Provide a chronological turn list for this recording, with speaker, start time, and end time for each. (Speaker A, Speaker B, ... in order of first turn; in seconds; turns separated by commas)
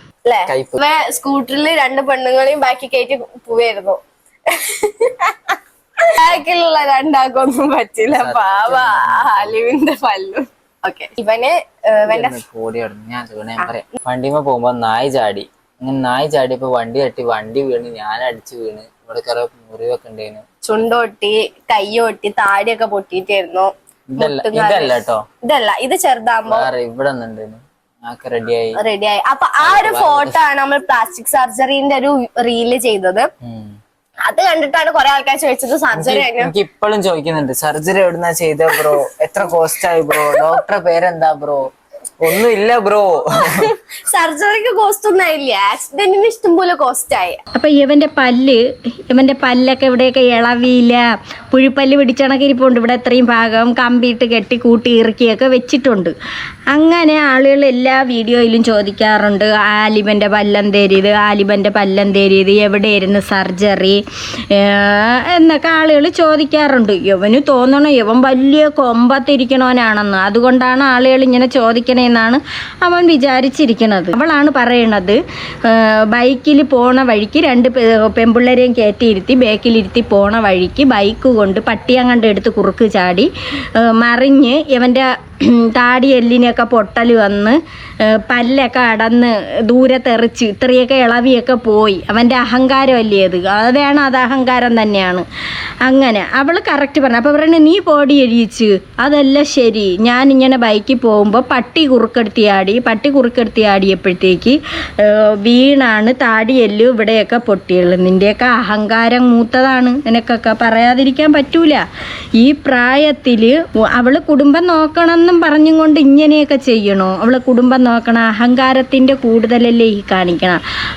Speaker A: 0.2-12.4, Speaker B: 0.5-0.8, Speaker B: 8.1-9.7, Speaker B: 12.1-20.4, Speaker A: 20.6-26.7, Speaker B: 24.1-25.2, Speaker B: 26.5-28.8, Speaker A: 28.8-33.3, Speaker B: 29.6-30.4, Speaker B: 33.4-33.8, Speaker A: 34.2-36.5, Speaker B: 35.9-41.7, Speaker B: 42.2-43.7, Speaker A: 43.4-47.4, Speaker C: 47.5-56.1, Speaker C: 56.7-95.2, Speaker C: 95.8-111.8, Speaker C: 112.4-120.6